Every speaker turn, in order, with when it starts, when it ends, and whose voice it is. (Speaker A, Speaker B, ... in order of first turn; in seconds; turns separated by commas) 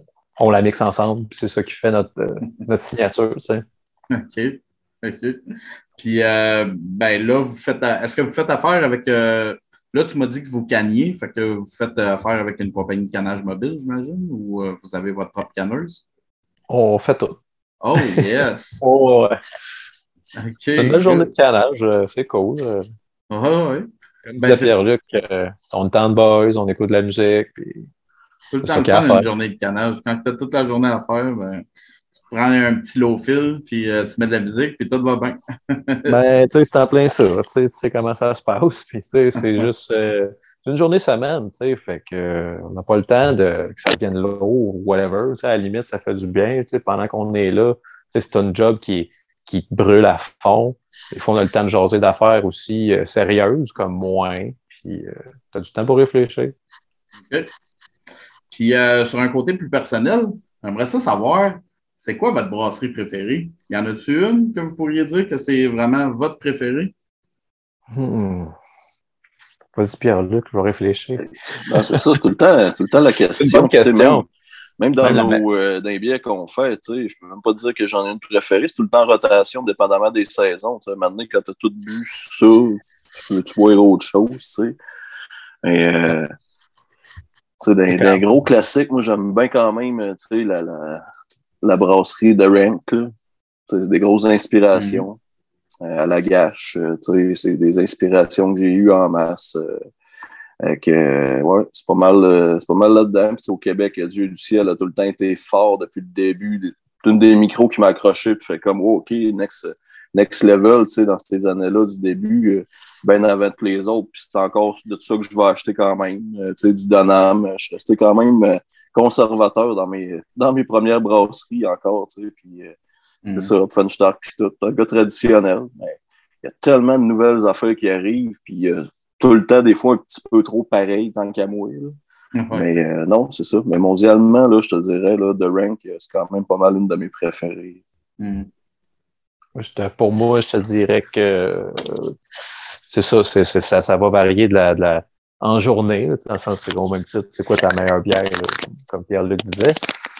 Speaker A: 0.4-3.6, Speaker B: 4.1-5.4, Speaker B: 6.0-16.0, Speaker A: 16.7-17.4, Speaker B: 17.8-18.8, Speaker A: 18.8-19.4, Speaker B: 20.4-21.3, Speaker A: 20.7-22.9, Speaker B: 23.3-23.9, Speaker A: 24.2-27.9, Speaker B: 24.4-24.7, Speaker B: 28.5-31.6, Speaker A: 28.6-29.3, Speaker B: 32.2-36.1, Speaker A: 36.1-56.5, Speaker B: 57.2-57.5, Speaker B: 58.5-66.9, Speaker A: 67.9-68.5, Speaker A: 69.7-72.2, Speaker C: 71.6-74.2, Speaker A: 73.4-74.2, Speaker C: 74.8-84.8, Speaker A: 75.0-75.4, Speaker C: 85.6-86.3, Speaker C: 87.6-91.0, Speaker C: 91.6-93.1, Speaker C: 93.7-95.2, Speaker B: 94.7-95.0, Speaker C: 95.8-99.8, Speaker C: 100.6-122.8, Speaker B: 123.2-123.5, Speaker C: 123.3-131.9, Speaker B: 132.3-132.6, Speaker C: 132.5-137.8, Speaker B: 138.2-138.5, Speaker A: 139.6-142.1, Speaker A: 142.9-149.8